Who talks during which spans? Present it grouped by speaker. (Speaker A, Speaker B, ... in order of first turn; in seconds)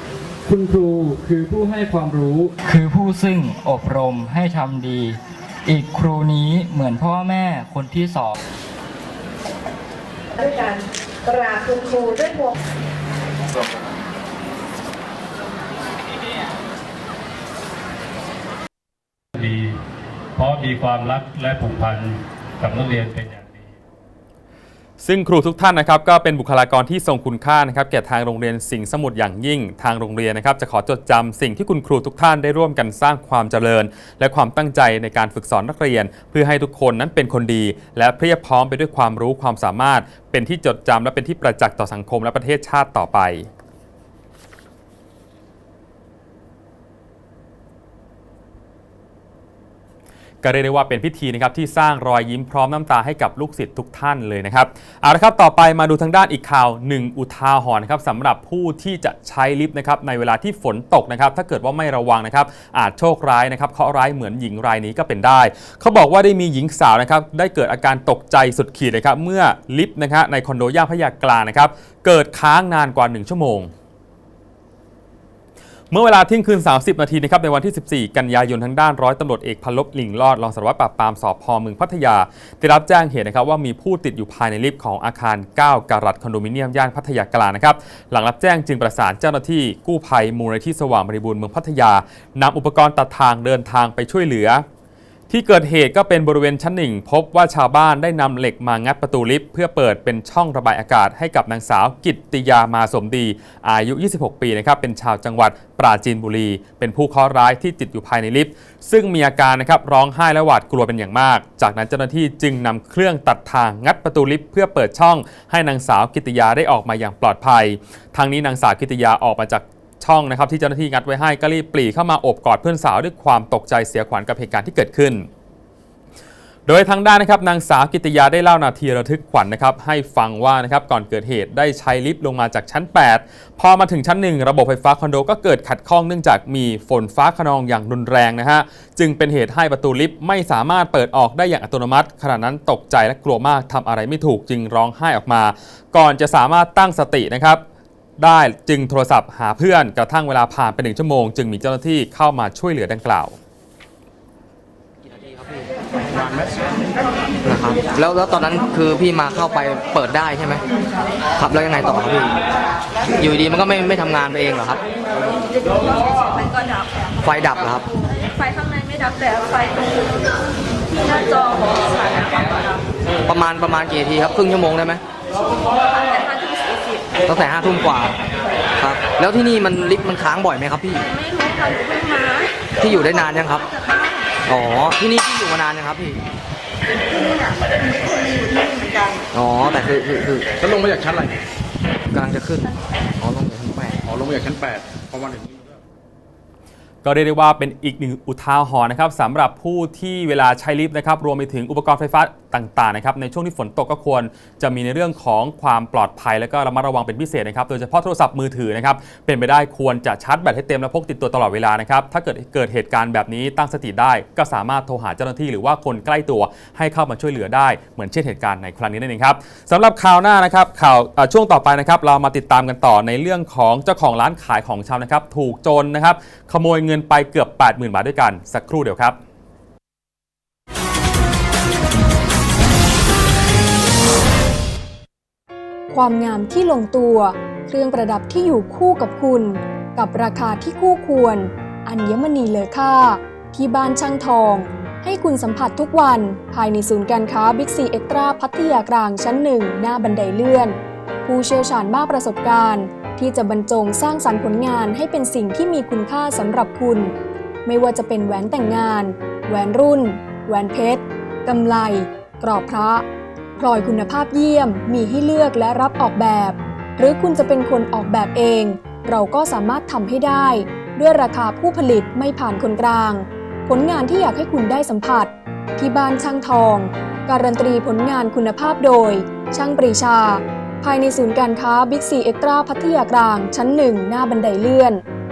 Speaker A: 0.4-8.4
Speaker B: 10.4-12.5
Speaker C: 19.4-19.8, 20.4-23.7
Speaker D: 25.0-43.5, 50.4-73.7, 75.9-94.6, 95.3-125.3, 126.7-147.6, 148.2-153.4, 197.0-229.2
Speaker E: 155.2-155.6, 156.1-156.6, 157.4-160.6, 161.3-162.4, 163.2-164.8, 167.2-167.8, 173.2-175.0, 177.2-178.2, 178.8-181.1, 182.8-183.7, 184.4-186.2, 189.3-190.6, 192.1-194.1
Speaker F: 165.5-166.9, 168.1-170.2, 171.0-172.8, 175.9-177.1, 181.0-182.5, 183.7-184.3
Speaker G: 190.6-191.3, 194.1-195.8
Speaker H: 235.9-257.1, 257.6-263.0, 263.6-285.0